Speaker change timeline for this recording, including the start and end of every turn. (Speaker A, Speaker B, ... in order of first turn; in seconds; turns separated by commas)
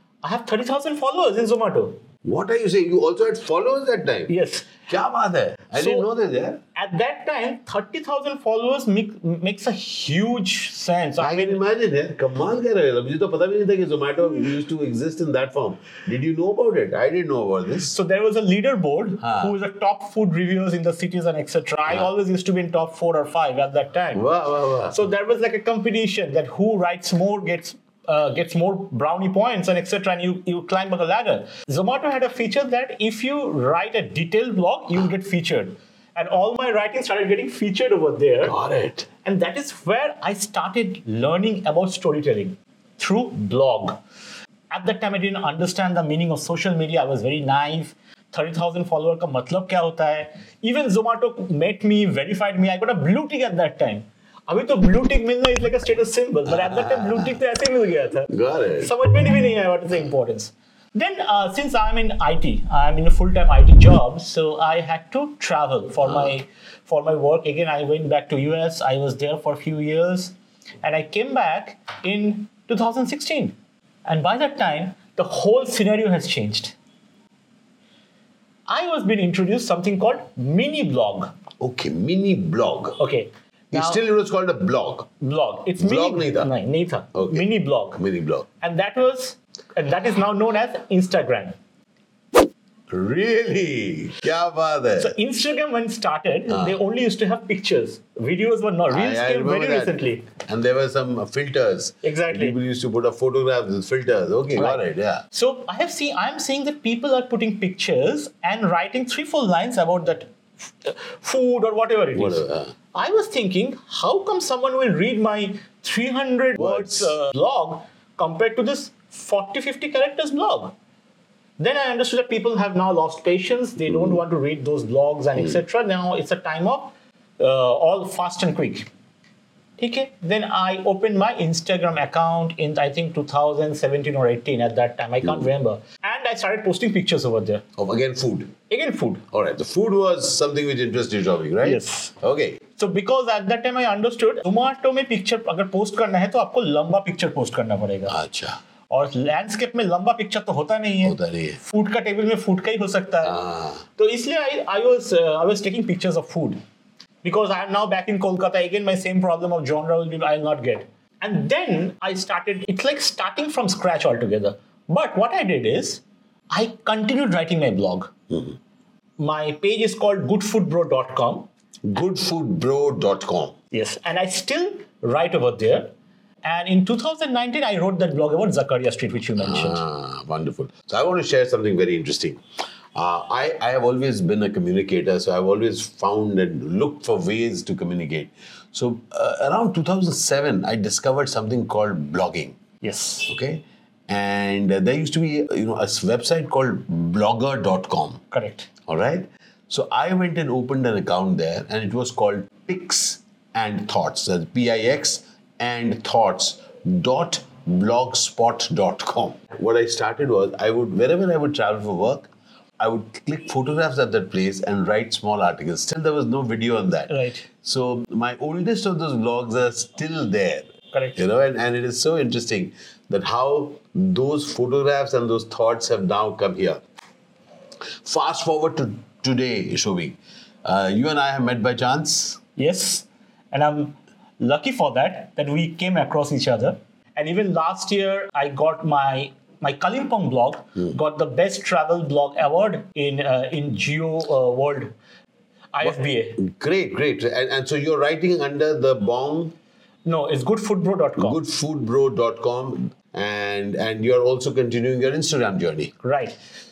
Speaker A: 0.2-2.0, Speaker B: 2.2-4.3, Speaker A: 4.3-4.7, Speaker B: 4.9-6.6, Speaker A: 5.8-6.1, Speaker A: 6.8-11.6, Speaker B: 11.2-17.9, Speaker A: 17.8-24.3, Speaker B: 19.2-19.6, Speaker B: 24.1-25.0, Speaker A: 24.9-38.6, Speaker B: 38.4-39.1, Speaker A: 39.2-44.0, Speaker A: 44.7-76.8, Speaker B: 56.5-57.4, Speaker B: 58.3-58.9, Speaker B: 66.0-66.3, Speaker A: 78.7-81.3, Speaker B: 81.6-83.0, Speaker A: 83.0-84.0, Speaker B: 83.7-85.1, Speaker A: 85.2-88.0, Speaker B: 85.8-86.5, Speaker B: 87.1-88.5, Speaker A: 88.6-91.6, Speaker B: 92.9-95.2, Speaker A: 95.0-100.3, Speaker B: 96.5-96.8, Speaker B: 98.9-105.2, Speaker A: 102.0-102.6, Speaker A: 104.5-120.8, Speaker B: 112.2-112.7, Speaker B: 116.6-117.2, Speaker A: 121.6-128.9, Speaker B: 123.8-124.2, Speaker B: 125.4-125.6, Speaker A: 129.8-137.6, Speaker B: 137.8-138.5, Speaker A: 138.7-139.2, Speaker B: 139.3-142.6, Speaker A: 141.6-142.1, Speaker A: 142.8-148.2, Speaker B: 148.1-148.6, Speaker A: 148.9-153.4, Speaker B: 151.0-151.6, Speaker B: 153.2-153.8, Speaker A: 154.0-156.6, Speaker A: 157.2-168.1, Speaker B: 168.3-168.6, Speaker A: 169.2-171.5, Speaker B: 171.9-173.6, Speaker A: 173.7-175.9, Speaker A: 176.4-179.8, Speaker B: 179.4-182.4, Speaker B: 182.9-192.6, Speaker A: 192.8-193.3, Speaker B: 193.3-198.2, Speaker A: 198.3-198.7, Speaker B: 198.9-226.8, Speaker A: 217.1-217.5, Speaker A: 220.9-221.2, Speaker B: 228.0-232.4, Speaker A: 232.6-245.0, Speaker A: 245.7-246.4, Speaker B: 245.8-249.6, Speaker A: 250.1-251.4, Speaker B: 251.2-255.9, Speaker A: 256.0-256.4